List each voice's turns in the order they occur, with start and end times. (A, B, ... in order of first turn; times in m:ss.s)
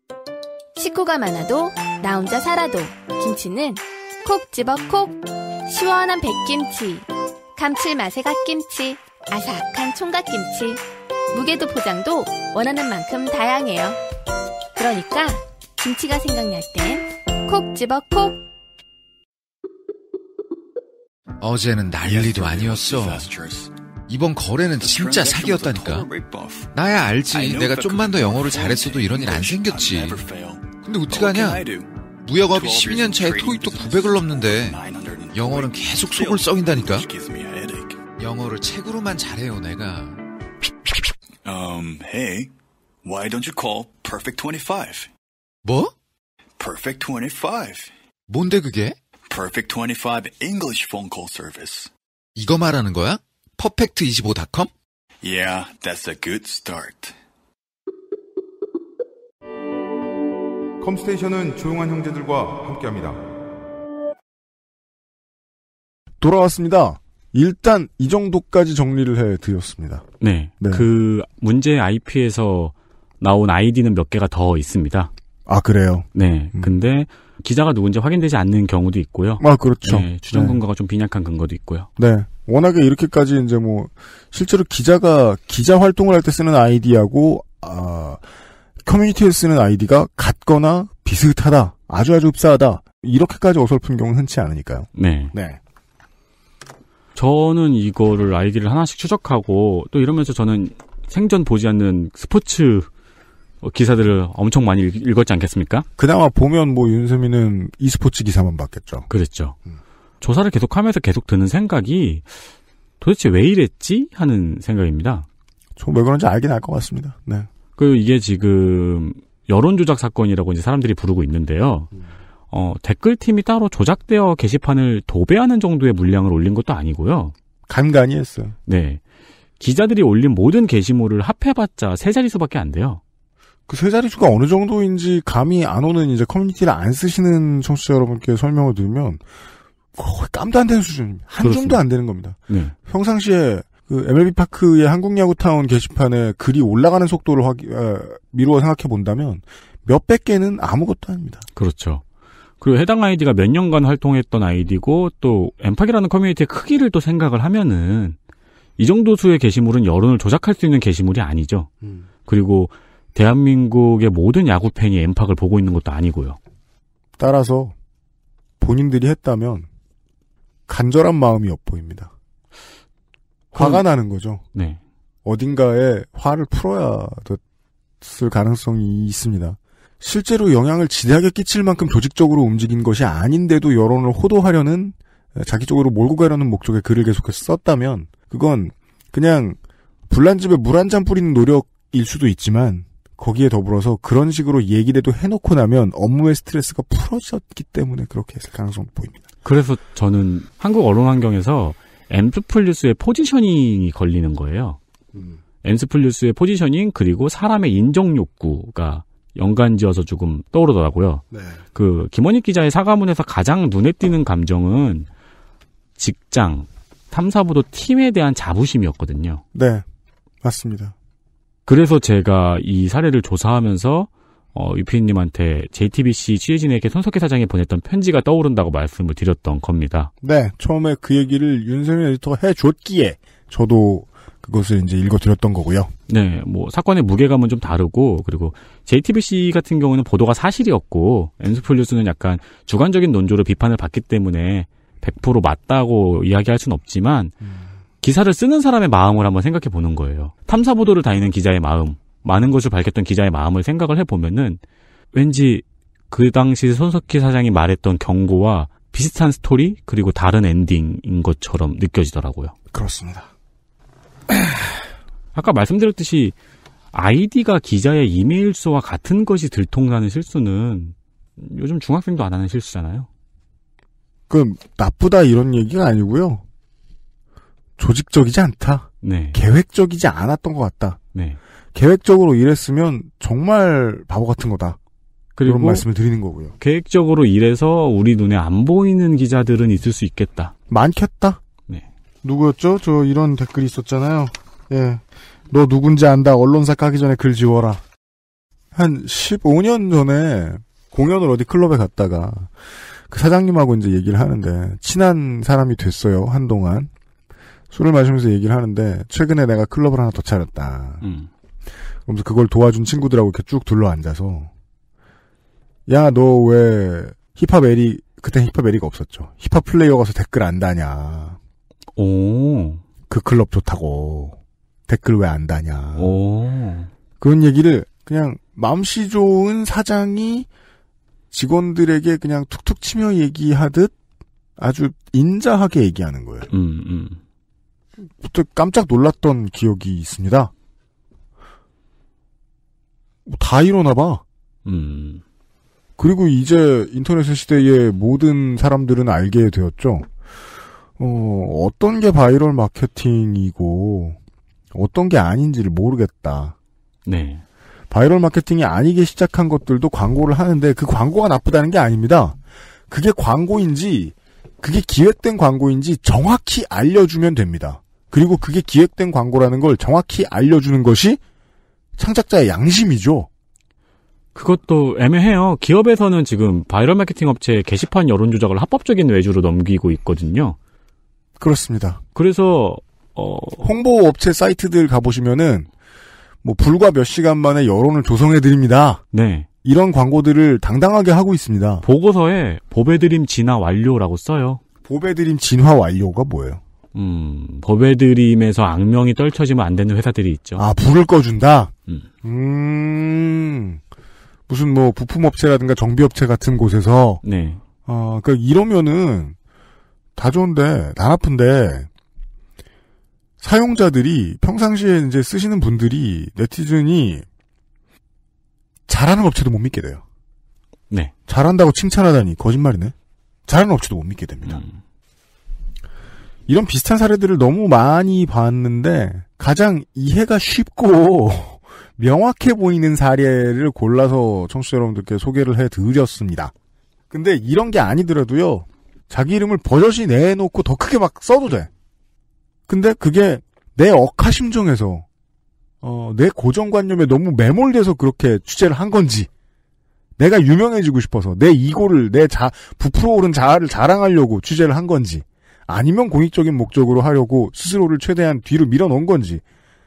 0:00.8-0:10.8 A
0:11.3-0:14.0 A
0:14.8-0:18.4 A
0:21.4-0:23.3 B
0:22.0-0:23.7 C
0:24.1-0:26.1 B
0:24.7-0:31.9 C
0:26.7-0:31.7 B
0:32.2-0:34.8 B
0:32.4-0:38.0 C
0:35.3-0:37.1 B
0:38.2-0:40.2 B
0:41.4-0:42.5 C
0:43.0-0:45.1 C
0:45.6-0:45.9 B
0:46.6-0:47.9 C
0:48.3-0:49.0 B
0:49.3-0:51.9 C
0:52.3-0:54.7 B
0:55.2-0:57.1 C
1:00.8-1:03.2 D
1:06.2-1:10.0 E
1:10.2-1:15.1 F
1:10.6-1:10.9 E
1:15.5-1:16.7 E
1:16.1-1:21.9 F
1:19.4-1:20.6 E
1:22.0-1:28.2 E
1:28.8-1:35.6 E
1:34.9-1:35.3 F
1:37.2-1:42.9 F
1:43.6-1:45.8 F
1:46.0-1:49.1 E
1:49.1-1:49.6 F
1:50.2-1:52.2 F
1:53.0-1:55.2 F
1:55.8-1:57.5 E
1:57.8-2:01.9 F
2:02.5-2:07.3 F
2:07.7-2:08.6 E
2:08.7-2:09.0 F
2:09.6-2:13.0 F
2:13.7-2:19.2 E
2:20.0-2:31.4 E
2:21.4-2:21.8 F
2:22.5-2:22.7 F
2:31.6-2:32.0 F
2:32.6-2:38.2 F
2:38.8-2:41.7 F
2:42.2-2:46.4 F
2:47.2-2:47.7 E
2:48.6-2:49.7 E
2:50.7-2:52.1 E
2:53.5-2:54.4 E
2:53.5-2:53.8 F
2:54.5-2:54.8 F
2:55.2-2:57.4 E
2:58.0-3:09.6 E
3:10.1-3:19.2 E
3:19.4-3:24.8 F
3:25.6-3:31.2 F
3:31.3-3:31.6 E
3:31.7-3:35.1 F
3:36.0-3:39.4 F
3:39.5-3:39.8 E
3:40.4-3:40.9 E
3:41.6-3:50.1 F
3:50.2-3:55.9 E
3:56.1-4:07.3 F
4:07.4-4:07.7 E
4:08.0-4:14.6 F
4:15.1-4:22.5 F
4:22.7-4:23.3 E
4:24.3-4:24.6 E
4:25.3-4:26.3 F
4:26.9-4:33.1 F
4:34.3-4:36.4 E
4:37.8-4:41.0 E
4:39.0-4:39.4 F
4:41.1-4:41.4 F
4:41.7-4:44.8 E
4:45.4-4:45.8 F
4:45.4-4:46.5 E
4:46.6-4:50.5 F
4:50.7-4:51.4 E
4:52.2-4:57.8 E
4:58.7-5:02.5 E
5:03.1-5:06.9 E
5:07.7-5:11.0 E
5:11.0-5:11.3 F
5:12.0-5:14.5 E
5:15.9-5:21.4 E
5:22.0-5:22.8 F
5:23.1-5:26.1 E
5:25.9-5:26.9 F
5:27.2-5:30.5 E
5:31.3-5:33.9 E
5:34.6-5:36.5 E
5:36.5-5:37.2 F
5:38.2-5:40.5 E
5:43.2-5:44.2 E
5:44.6-5:45.2 F
5:46.0-5:50.1 E
5:51.0-5:54.2 E
5:54.7-5:56.5 E
5:57.0-5:57.4 F
5:57.9-6:02.4 E
6:02.9-6:11.2 E
6:12.0-6:13.3 E
6:14.3-6:20.6 F
6:21.4-6:22.0 E
6:22.1-6:23.7 F
6:23.6-6:25.7 E
6:26.4-6:29.0 E
6:29.1-6:29.4 F
6:29.6-6:31.8 E
6:31.8-6:34.6 F
6:34.8-6:36.6 E
6:36.9-6:40.6 F
6:40.6-6:43.8 E
6:44.5-6:47.2 E
6:47.2-6:47.6 F
6:47.8-6:49.4 E
6:50.2-6:51.9 E
6:53.4-6:57.2 E
6:58.9-7:00.0 E
7:01.3-7:02.9 E
7:03.5-7:04.6 E
7:04.4-7:04.8 F
7:06.5-7:16.5 E
7:17.1-7:21.7 E
7:22.7-7:25.0 E
7:25.8-7:29.3 E
7:30.2-7:39.4 E